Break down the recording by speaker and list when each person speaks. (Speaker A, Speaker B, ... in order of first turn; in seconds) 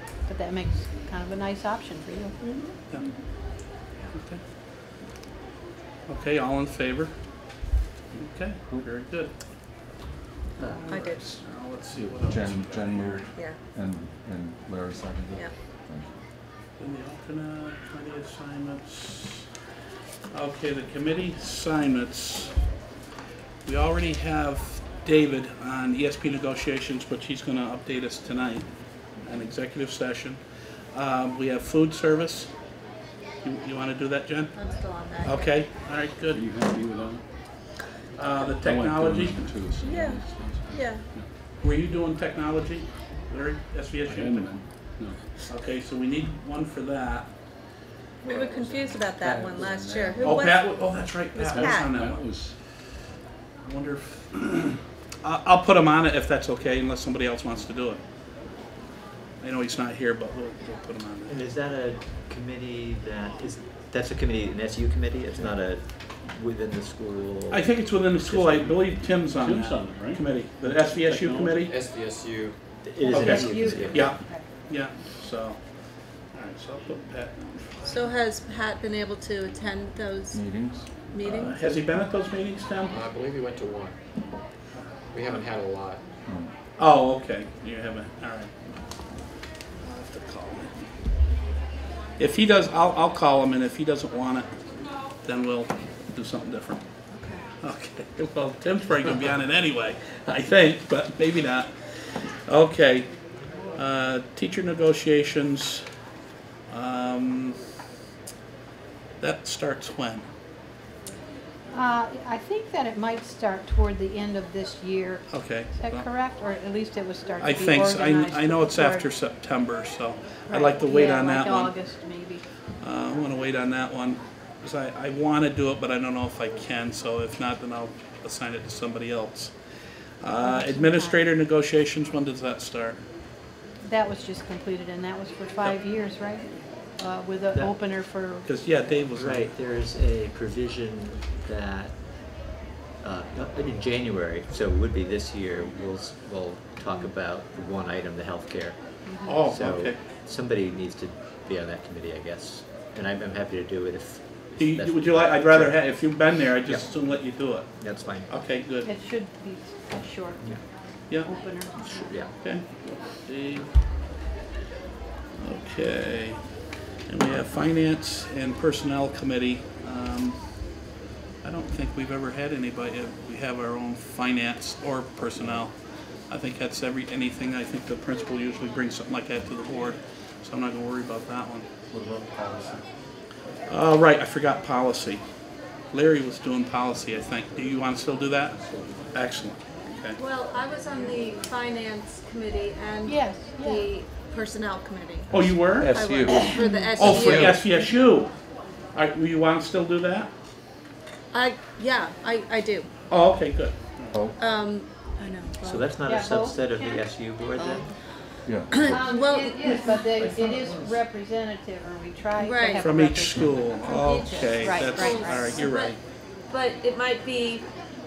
Speaker A: 0.2-2.4, 73.0-74.5, 111.7-119.1, 120.5-122.4, 130.4-131.2, 133.8-138.5, 158.8-162.1, 193.1-193.9, 196.5-196.8, 206.0-207.8, 208.8-215.6
Speaker B: 2.4-2.8, 10.6-11.4, 13.3-13.6, 34.5-35.7, 39.8-41.1, 48.2-51.9, 77.8-80.5, 81.1-81.6, 97.1-97.4, 190.2-197.6, 201.3-202.9, 204.3-205.9, 208.7-210.0, 212.4-212.8, 213.8-217.7
Speaker C: 4.1-4.4, 6.0-7.1, 8.1-9.3, 10.6-13.3, 16.8-19.5, 20.3-22.6, 23.6-32.5, 33.4-34.6, 35.2-36.4, 38.1-39.7, 41.6-44.6, 45.4-47.3, 50.2-52.5, 53.6-58.0, 59.4-61.4, 67.5-71.7, 73.1-75.7, 76.3-78.0, 81.2-83.0, 86.8-88.5, 89.8-90.8, 92.2-94.5, 95.0-96.8, 97.6-103.2, 103.7-105.8, 106.7-107.6, 109.2-110.3, 115.3-116.1, 117.4-121.9, 122.8-129.5, 130.2-133.0, 138.4-139.5, 149.2-150.0, 154.6-158.9, 162.4-163.7, 165.4-166.4, 167.1-170.8, 171.4-175.8, 176.3-181.7, 183.7-185.2, 185.9-188.6, 189.1-190.2, 195.3-196.1, 196.9-200.3, 203.1-204.3, 212.8-216.0
Speaker D: 11.9-16.2, 80.3-80.9, 86.2-86.5, 181.9-182.8, 183.4-183.7, 188.6-188.9, 195.3-197.6, 204.1-204.4, 208.4-208.9
Speaker E: 36.2-37.2, 38.6-41.3, 44.0-45.4, 51.4-52.5, 68.4-71.7, 73.4-73.7
Speaker F: 49.2-50.4, 61.2-68.5, 72.8-74.2, 139.1-142.3, 143.0-157.0, 157.8-158.3, 161.8-162.3, 205.6-207.9
Speaker G: 71.7-72.6, 82.9-84.0, 85.1-86.0